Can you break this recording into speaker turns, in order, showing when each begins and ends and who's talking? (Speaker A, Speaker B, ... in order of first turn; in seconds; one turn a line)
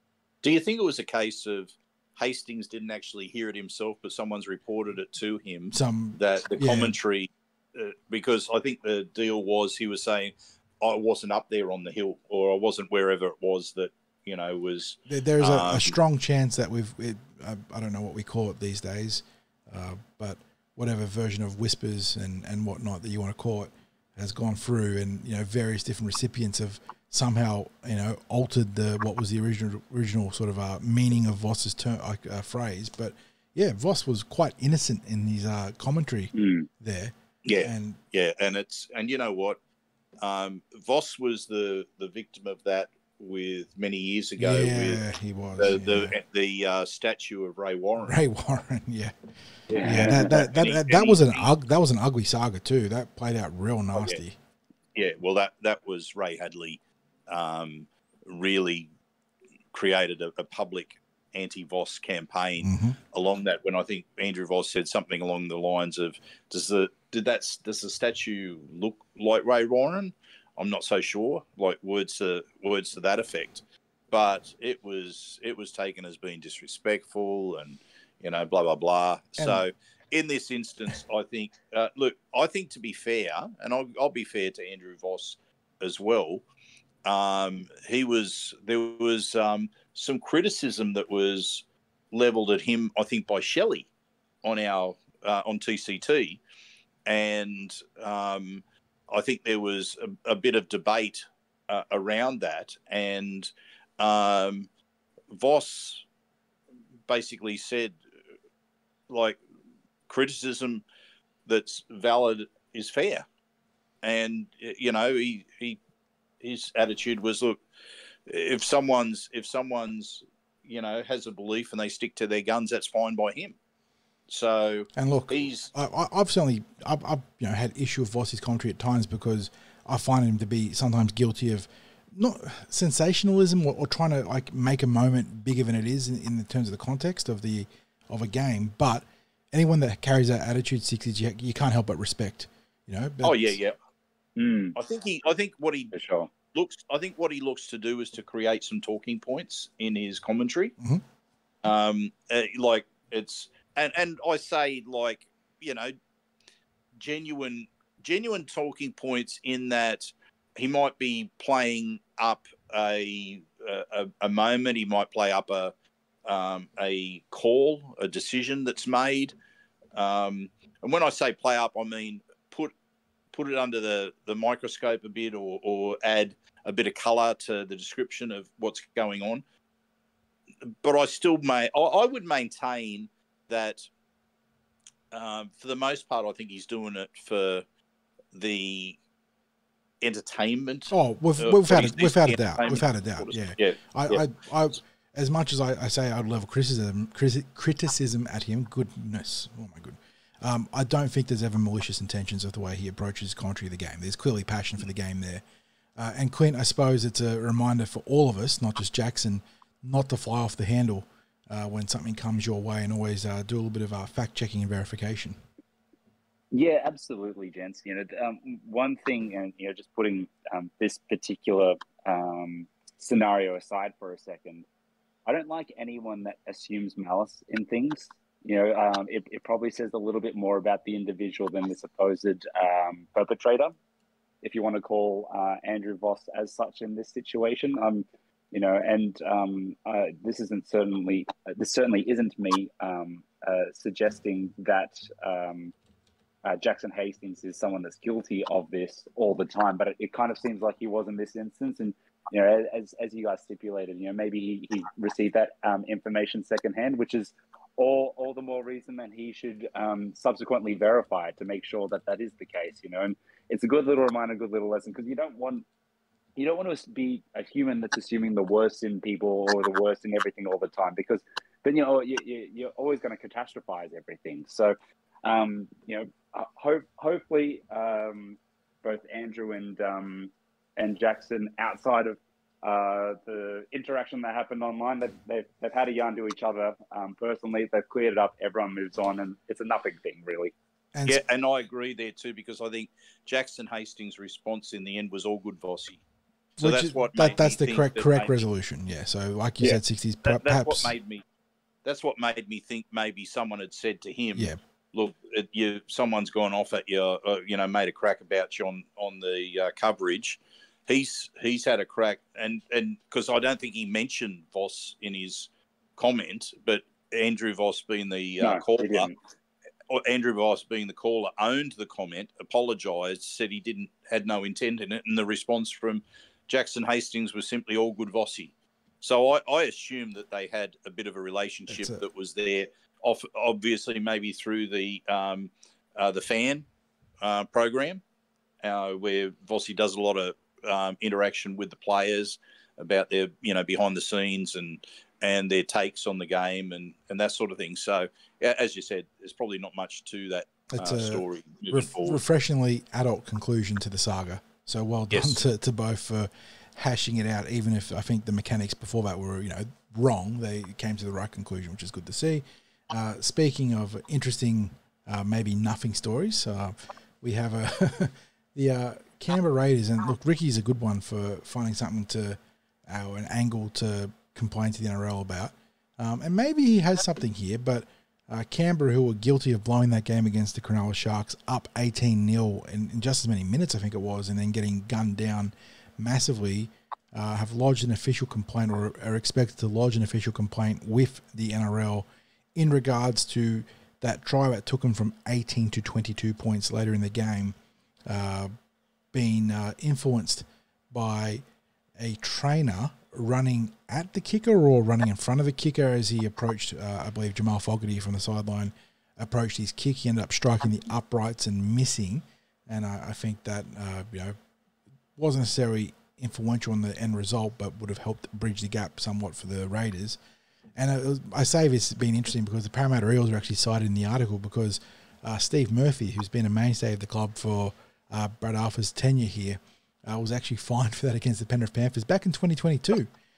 Speaker A: 0.4-16.0
Speaker B: 5.7-7.0
Speaker B: 15.1-38.0
Speaker C: 36.3-36.7
Speaker A: 37.4-39.6
Speaker A: 40.2-45.0
Speaker B: 44.4-46.1
Speaker A: 45.6-48.2
Speaker B: 48.0-49.1
Speaker C: 49.7-50.5
Speaker A: 49.7-51.5
Speaker B: 49.8-54.4
Speaker A: 53.9-54.2
Speaker A: 54.9-58.9
Speaker A: 59.7-86.4
Speaker B: 62.6-63.0
Speaker B: 79.4-79.6
Speaker A: 87.0-93.9
Speaker A: 94.4-96.4
Speaker A: 97.0-104.7
Speaker A: 105.3-106.0
Speaker A: 107.1-108.0
Speaker A: 109.1-109.4
Speaker A: 110.1-110.8
Speaker A: 111.5-113.2
Speaker A: 114.0-115.8
Speaker A: 116.4-117.6
Speaker A: 118.3-123.6
Speaker A: 124.3-125.7
Speaker B: 125.0-143.6
Speaker A: 143.2-143.8
Speaker C: 144.4-144.8
Speaker A: 144.8-145.9
Speaker C: 145.9-146.3
Speaker A: 146.5-150.7
Speaker A: 151.6-155.9
Speaker A: 156.9-165.7
Speaker A: 166.2-169.3
Speaker A: 169.9-172.7
Speaker A: 173.3-179.4
Speaker A: 180.6-183.9
Speaker A: 185.1-187.6
Speaker A: 188.3-189.0
Speaker A: 190.0-194.2
Speaker B: 190.9-205.4
Speaker B: 205.9-215.4
Speaker C: 216.5-224.7
Speaker C: 225.2-233.8
Speaker C: 234.4-245.7
Speaker C: 246.4-265.6
Speaker C: 266.4-290.5
Speaker B: 290.9-291.2
Speaker A: 291.1-296.0
Speaker A: 296.6-298.4
Speaker B: 296.6-300.9
Speaker A: 300.2-301.2
Speaker A: 301.8-319.1
Speaker C: 318.4-319.1
Speaker A: 319.9-336.7
Speaker B: 331.7-332.0
Speaker A: 337.2-338.0
Speaker A: 338.6-352.2
Speaker B: 350.7-397.6
Speaker A: 355.1-355.4
Speaker B: 398.1-398.5
Speaker B: 399.1-401.4
Speaker B: 402.0-414.4
Speaker B: 415.2-420.2
Speaker B: 420.8-433.1